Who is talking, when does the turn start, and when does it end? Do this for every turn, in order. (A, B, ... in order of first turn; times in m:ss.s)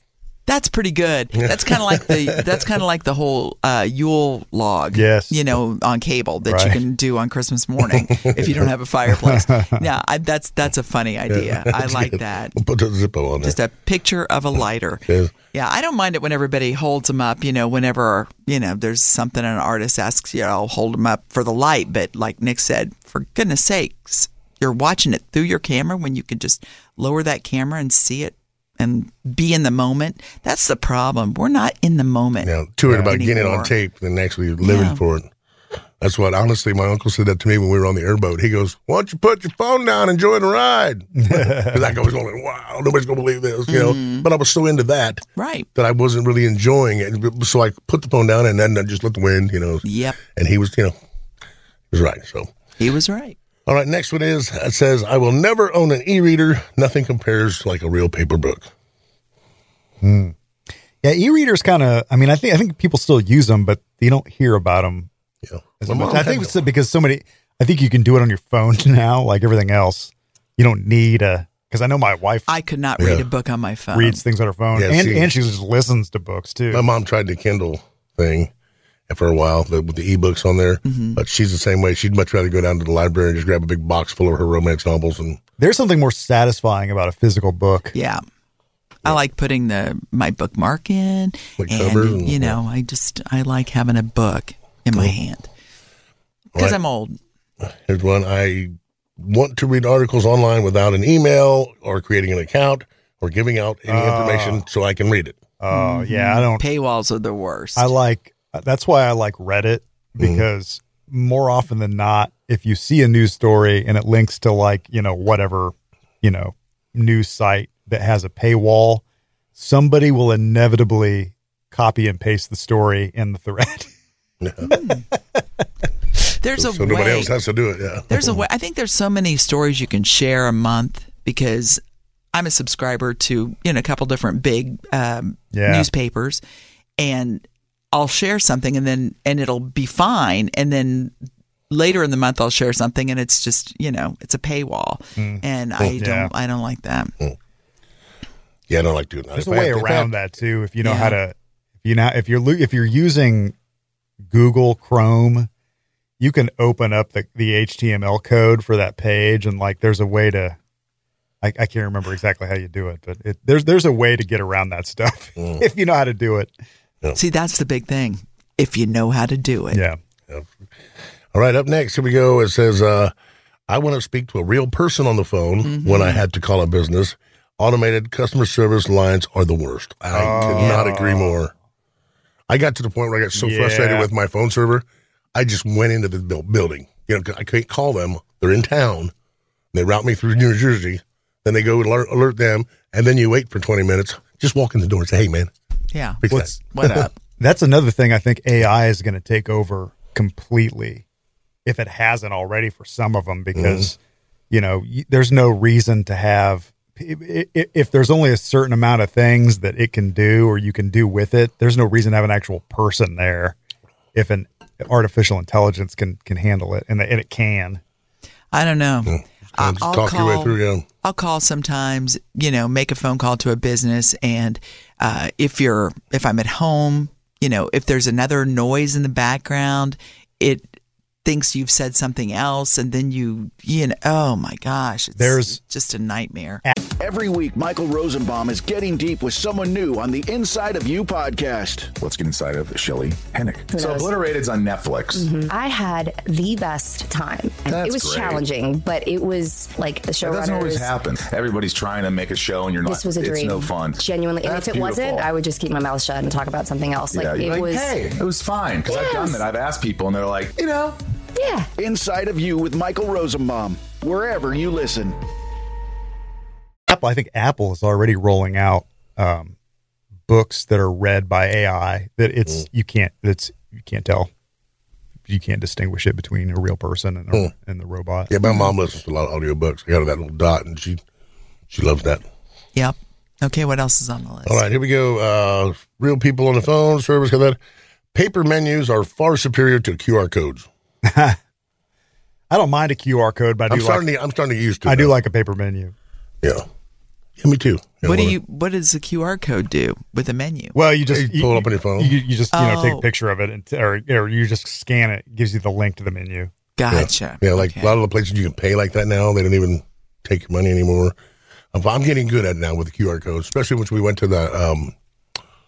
0:00.5-0:12.6 A
0:01.4-0:02.6 B
0:04.9-0:05.4 C
0:06.4-0:06.8 C
0:07.9-0:08.7 B
0:09.2-0:09.8 C
0:11.3-0:13.6 B
0:13.4-0:33.7 A
0:15.1-0:15.3 B
0:32.4-0:35.3 B
0:32.9-0:33.1 C
0:34.6-0:35.0 A
0:36.0-0:50.9 B
0:41.2-0:41.9 C
0:43.7-0:44.3 A
0:45.4-0:45.7 A
0:49.8-0:50.2 A
0:51.9-0:52.5 B
0:52.8-0:53.4 A
0:53.6-0:58.7 B
1:00.0-1:00.3 C
1:01.0-1:05.1 C
1:05.4-1:06.5 B
1:05.8-1:12.5 C
1:12.5-1:14.2 A
1:13.0-1:13.2 B
1:13.9-1:16.8 C
1:14.7-1:15.3 B
1:16.7-1:18.5 B
1:19.1-1:25.4 B
1:20.8-1:21.2 A
1:25.6-1:27.9 C
1:27.9-1:28.2 A
1:29.0-1:35.5 A
1:31.6-1:32.6 B
1:36.5-1:37.2 A
1:37.6-1:45.4 B
1:43.9-1:44.6 C
1:45.6-1:46.6 C
1:45.7-1:47.9 A
1:47.8-1:59.0 C
1:50.2-1:50.4 B
1:59.5-2:03.9 C
2:04.6-2:05.1 A
2:06.4-2:07.3 A
2:06.6-2:08.4 B
2:08.1-2:11.8 A
2:12.3-2:16.4 A
2:15.5-2:15.9 C
2:17.0-2:21.1 A
2:21.7-2:27.2 A
2:25.2-2:25.4 C
2:26.0-2:26.3 C
2:28.7-2:30.1 B
2:29.3-2:33.5 C
2:30.8-2:31.2 A
2:34.3-2:35.5 C
2:36.2-2:40.6 C
2:41.4-2:46.5 C
2:45.4-2:45.6 B
2:47.1-2:49.8 A
2:49.7-2:50.0 C
2:50.3-2:50.5 B
2:51.3-2:53.1 B
2:53.7-3:01.5 B
2:55.6-2:56.2 A
3:00.1-3:01.4 C
3:00.3-3:00.8 A
3:02.5-3:09.1 B
3:03.4-3:04.1 C
3:09.7-3:15.5 B
3:15.9-3:17.1 A
3:16.2-3:17.0 B
3:16.3-3:16.6 C
3:17.3-3:21.0 C
3:21.6-3:24.0 C
3:23.5-3:23.9 B
3:24.5-3:33.6 C
3:34.1-3:37.8 C
3:38.5-3:56.6 A
3:39.1-3:40.8 B
3:55.2-3:55.6 C
3:57.0-4:01.9 D
4:02.0-4:05.3 E
4:03.7-4:04.1 F
4:05.1-4:10.9 F
4:07.7-4:08.4 E
4:10.2-4:15.3 E
4:12.8-4:17.9 F
4:17.1-4:21.0 E
4:18.9-4:19.4 F
4:21.4-4:21.7 F
4:21.8-4:25.2 D
4:26.9-4:29.5 C
4:30.3-4:34.3 C
4:35.3-4:38.3 C
4:38.3-4:41.0 B
4:41.7-4:42.2 B
4:42.7-4:44.6 A
4:44.4-4:47.6 B
4:48.1-4:50.7 B
4:51.0-4:51.4 C
4:52.5-4:54.0 C
4:53.7-4:55.1 B
4:54.8-4:55.9 C
4:57.4-4:58.4 B
4:58.0-5:00.8 A
5:00.7-5:06.5 C
5:01.1-5:02.2 B
5:02.5-5:03.0 A
5:06.8-5:08.0 A
5:06.9-5:11.2 B
5:11.7-5:14.9 B